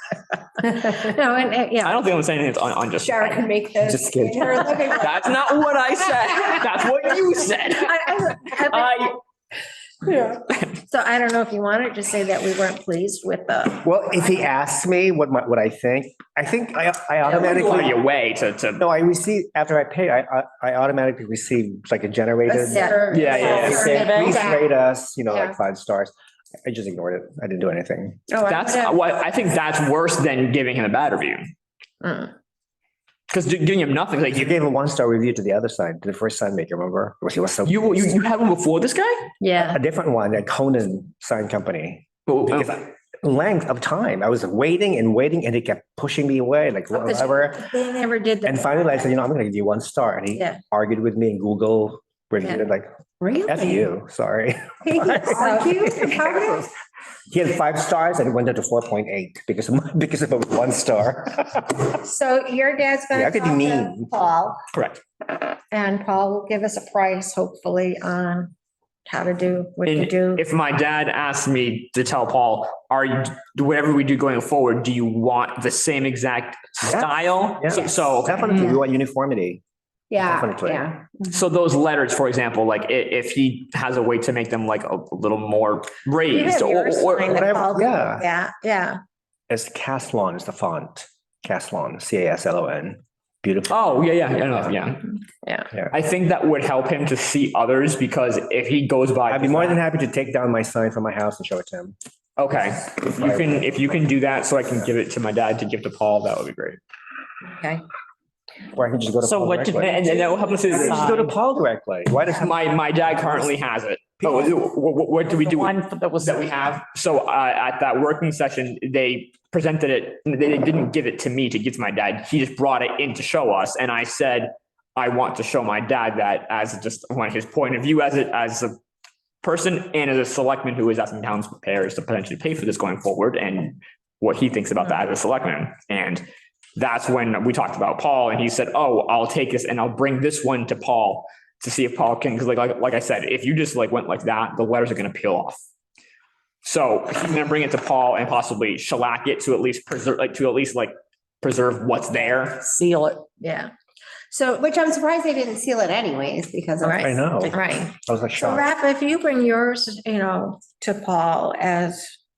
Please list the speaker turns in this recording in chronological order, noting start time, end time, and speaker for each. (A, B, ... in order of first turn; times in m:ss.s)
0:00.6-0:02.0 A
0:01.8-0:03.5 B
0:03.0-0:05.2 A
0:03.8-0:04.9 C
0:05.0-0:09.2 B
0:07.7-0:09.1 A
0:10.0-0:13.9 A
0:13.8-0:18.0 C
0:17.3-0:18.8 B
0:18.8-0:26.1 C
0:22.7-0:23.7 A
0:22.8-0:24.6 D
0:23.1-0:23.9 B
0:23.2-0:24.5 E
0:26.6-0:28.3 C
0:28.3-0:29.0 A
0:28.4-0:31.4 B
0:32.0-0:32.3 A
0:33.3-0:34.6 B
0:34.3-0:38.1 C
0:37.6-0:39.3 B
0:39.4-0:39.8 A
0:39.7-0:47.7 C
0:42.3-0:42.7 B
0:46.9-0:48.9 A
0:48.4-0:52.9 C
0:53.2-0:53.8 D
0:53.5-0:56.5 C
0:54.9-0:56.4 D
0:55.2-0:56.6 A
0:57.3-1:01.8 C
1:02.0-1:04.6 A
1:03.1-1:04.1 C
1:04.7-1:05.0 B
1:05.7-1:08.5 A
1:09.1-1:10.4 A
1:09.9-1:18.5 B
1:16.8-1:19.6 C
1:20.1-1:21.1 D
1:20.2-1:20.9 C
1:21.3-1:27.4 B
1:26.3-1:29.0 A
1:27.3-1:28.2 C
1:29.5-1:33.8 C
1:33.7-1:35.2 B
1:35.4-1:35.7 A
1:35.9-1:39.8 B
1:39.3-1:42.0 C
1:42.4-1:46.8 B
1:43.2-1:43.8 C
1:47.5-1:47.8 A
1:48.7-1:50.1 C
1:49.2-1:51.3 E
1:49.7-1:51.3 B
1:50.7-1:52.5 C
1:52.3-2:08.8 B
1:55.3-1:56.5 E
2:09.4-2:16.2 B
2:16.8-2:25.6 B
2:26.6-2:32.7 B
2:32.6-2:33.3 E
2:33.4-2:33.7 A
2:34.3-2:37.1 D
2:36.8-2:42.1 A
2:37.0-2:38.6 C